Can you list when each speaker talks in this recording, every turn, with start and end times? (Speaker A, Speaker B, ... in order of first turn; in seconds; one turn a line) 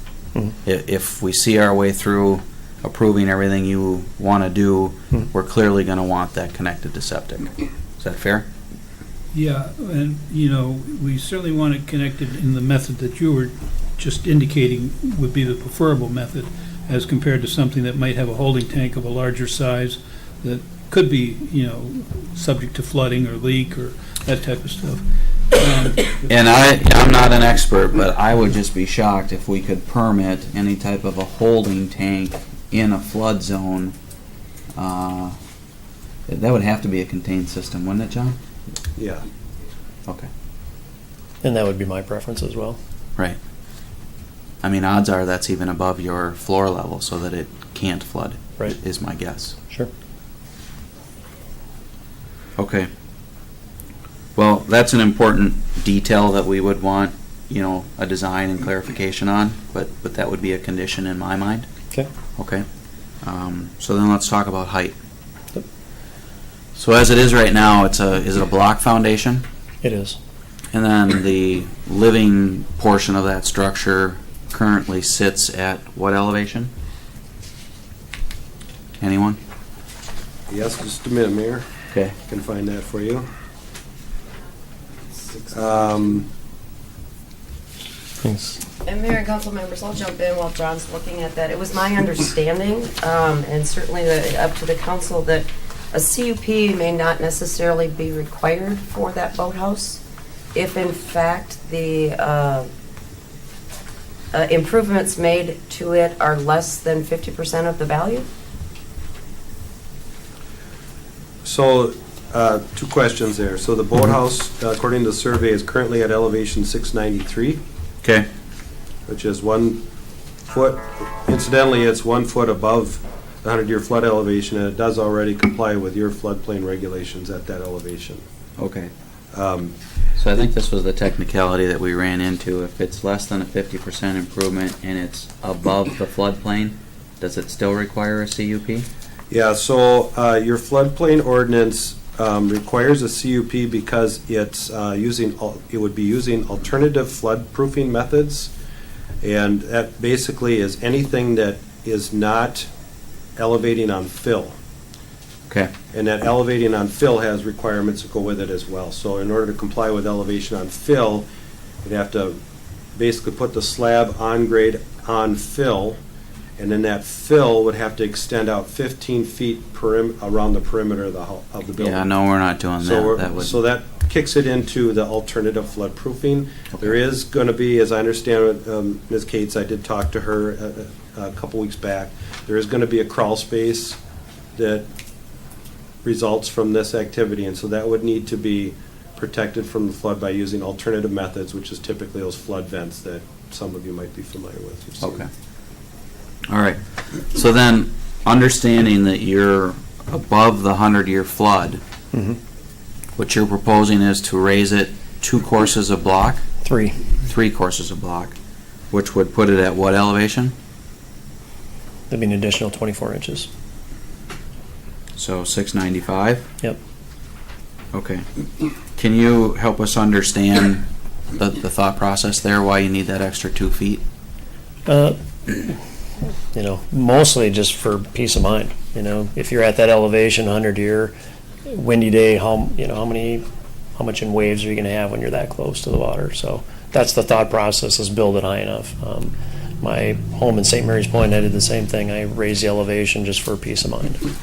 Speaker A: 0.6-8.5
Speaker B: 9.3-26.2
Speaker A: 26.2-33.9
Speaker A: 34.8-35.4
Speaker A: 36.3-38.4
Speaker C: 39.0-39.2
Speaker D: 41.4-42.8
Speaker A: 44.6-49.5
Speaker A: 52.6-52.9
Speaker A: 54.4-61.7
Speaker A: 62.4-62.6
Speaker A: 63.2-65.0
Speaker A: 66.8-69.4
Speaker D: 69.8-70.2
Speaker A: 70.7-76.7
Speaker A: 79.0-79.4
Speaker C: 80.5-81.7
Speaker C: 82.2-83.2
Speaker C: 85.5-86.3
Speaker D: 88.2-88.6
Speaker E: 88.8-100.0
Speaker E: 100.5-102.7
Speaker E: 104.3-108.2
Speaker C: 111.4-117.6
Speaker C: 119.1-119.8
Speaker C: 120.5-128.2
Speaker A: 128.6-128.9
Speaker C: 129.3-129.7
Speaker A: 130.2-138.8
Speaker C: 139.3-148.5
Speaker C: 149.2-152.7
Speaker C: 153.4-154.5
Speaker C: 155.9-161.2
Speaker C: 161.8-162.4
Speaker C: 162.9-166.0
Speaker C: 166.6-172.0
Speaker A: 171.8-173.6
Speaker C: 172.8-184.0
Speaker C: 184.6-184.8
Speaker C: 186.0-195.2
Speaker A: 195.0-195.3
Speaker A: 196.5-196.8
Speaker A: 197.3-201.8
Speaker D: 202.1-202.4
Speaker A: 203.2-206.4
Speaker D: 206.6-207.0
Speaker A: 207.2-208.3
Speaker A: 208.9-210.5
Speaker D: 212.1-213.5
Speaker A: 215.2-216.5
Speaker A: 217.9-218.2
Speaker A: 218.9-220.8
Speaker A: 221.3-224.0
Speaker D: 224.8-225.8
Speaker D: 226.5-231.2
Speaker D: 231.7-233.4
Speaker D: 233.9-244.2